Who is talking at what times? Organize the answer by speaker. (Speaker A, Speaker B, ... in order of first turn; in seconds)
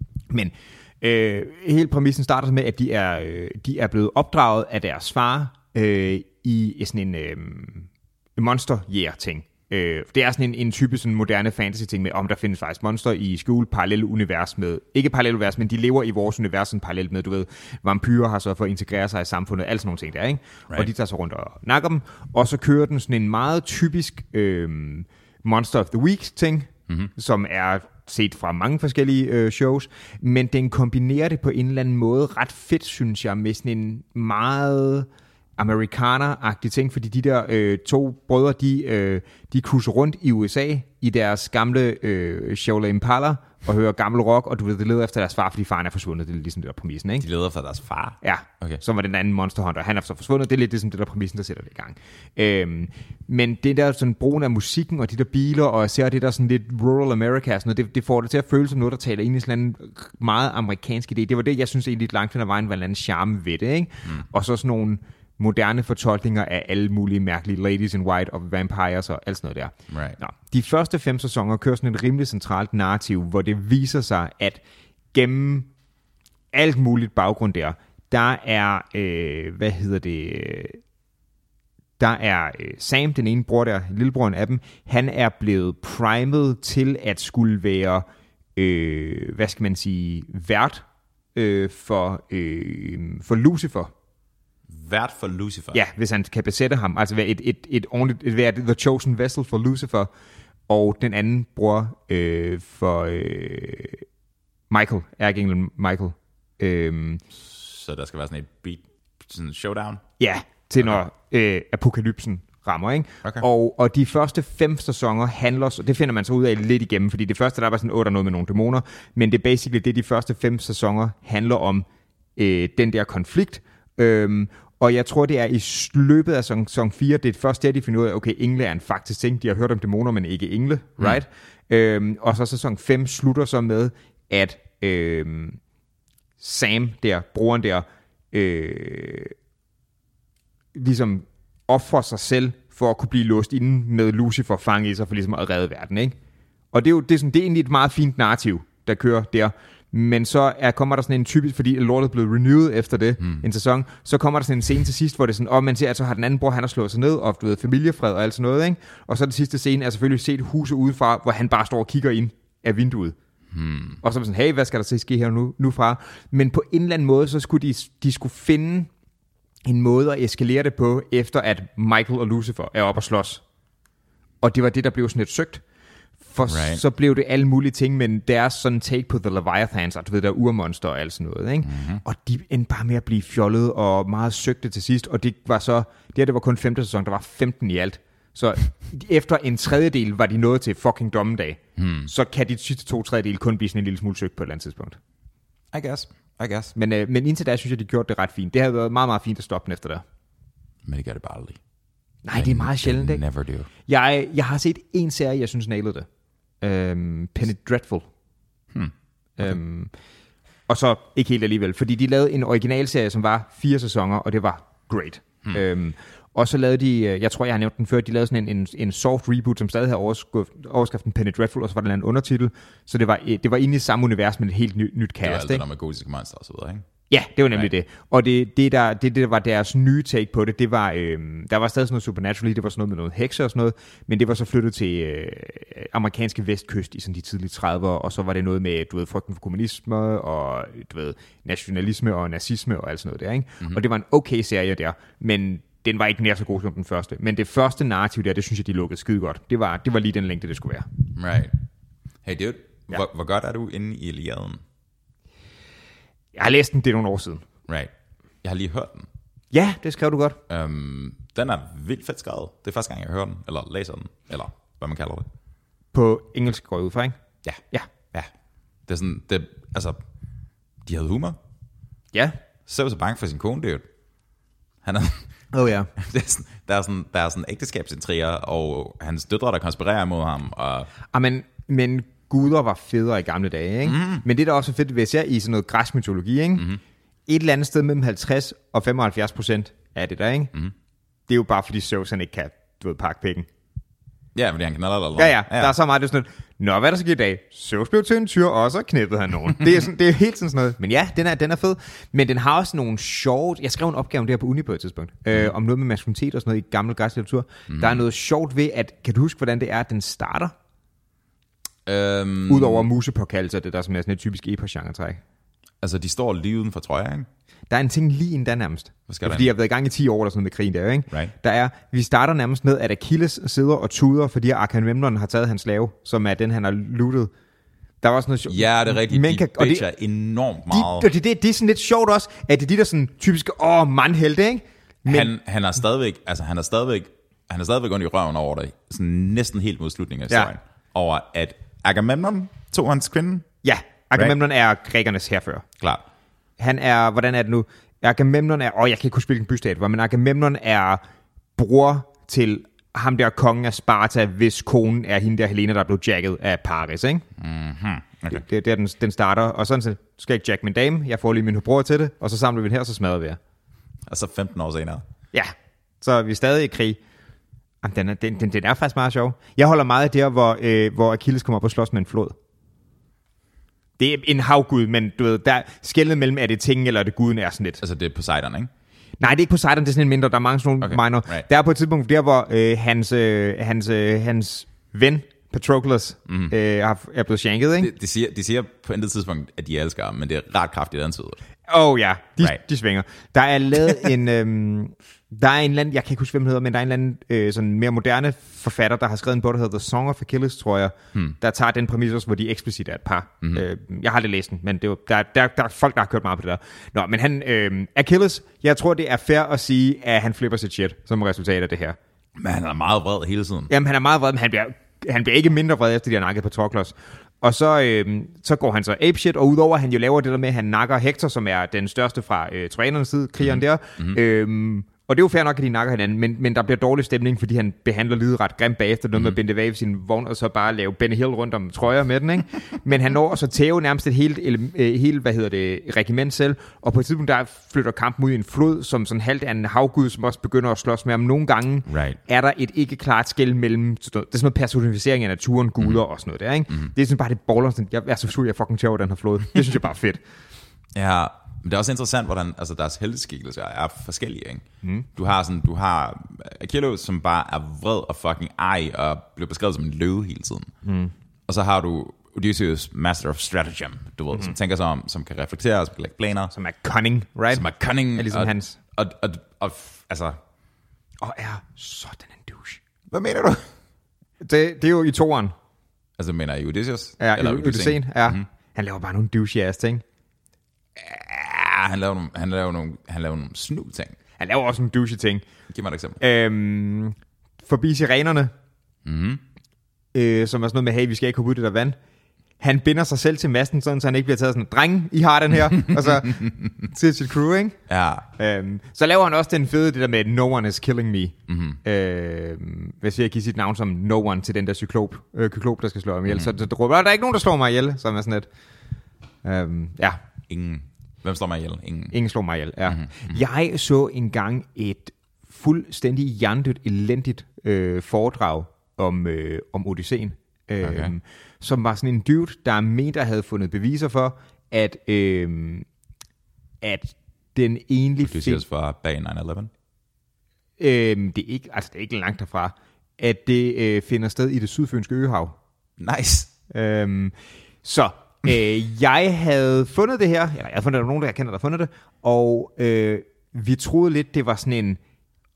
Speaker A: 0.3-47.3, 48.2-74.6, 75.1-75.7, 76.5-80.8, 82.0-88.0, 88.6-93.9, 95.7-100.1, 100.7-104.0, 104.7-107.2, 110.2-135.6, 136.4-139.3, 140.7-146.2, 146.7-163.2, 164.0-168.9, 169.7-173.4, 174.4-175.6, 176.3-195.0, 196.8-200.0, 202.2-203.2, 203.8-206.1, 206.6-208.1, 209.4-209.9, 210.7-225.6, 227.1-250.9, 256.4-257.4, 259.5-260.4, 265.9-267.1, 275.5-275.9, 281.1-286.7, 287.3-290.5, 291.3-293.5, 295.2-310.5, 312.5-315.2, 317.7-327.3, 328.0-329.9, 330.7-335.3, 343.6-345.7, 346.6-351.0, 351.6-357.3, 358.3-363.4, 365.3-367.0, 367.8-372.4, 374.0-377.8, 379.2-387.9, 391.7-412.0, 413.7-450.2, 460.9-461.1, 466.5-468.8, 471.2-472.8, 474.4-475.5, 477.2-480.0, 484.4-485.4, 486.2-488.5, 490.1-492.0, 492.6-497.8, 498.3-508.5, 509.4-510.2, 512.1-525.9, 526.8-528.6, 530.8-535.6, 536.7-545.0
Speaker B: 47.2-48.8, 69.9-70.2, 94.7-95.8, 107.4-110.0, 163.5-164.0, 176.5-176.8, 181.6-182.0, 191.8-192.1, 195.7-196.7, 200.9-201.6, 202.3-203.7, 225.2-226.8, 251.2-251.6, 252.2-254.6, 258.4-259.1, 260.5-265.3, 268.9-270.0, 270.9-271.4, 272.7-273.9, 274.8-275.3, 275.9-280.9, 283.9-284.2, 294.4-295.8, 307.7-308.0, 311.9-312.9, 315.8-317.3, 319.1-319.5, 328.5-331.1, 335.1-343.5, 357.4-358.4, 364.1-365.0, 377.8-378.7, 380.8-381.5, 386.3-386.5, 387.8-391.4, 412.4-413.7, 423.4-424.2, 441.9-442.2, 450.9-460.7, 461.5-466.5, 467.5-470.4, 473.1-473.7, 476.2-478.5, 481.3-484.2, 485.7-486.2, 489.1-489.4, 495.8-496.8, 497.9-498.3, 501.5-501.8, 510.5-512.2, 512.9-513.4, 520.8-521.1, 528.2-529.7, 536.0-536.5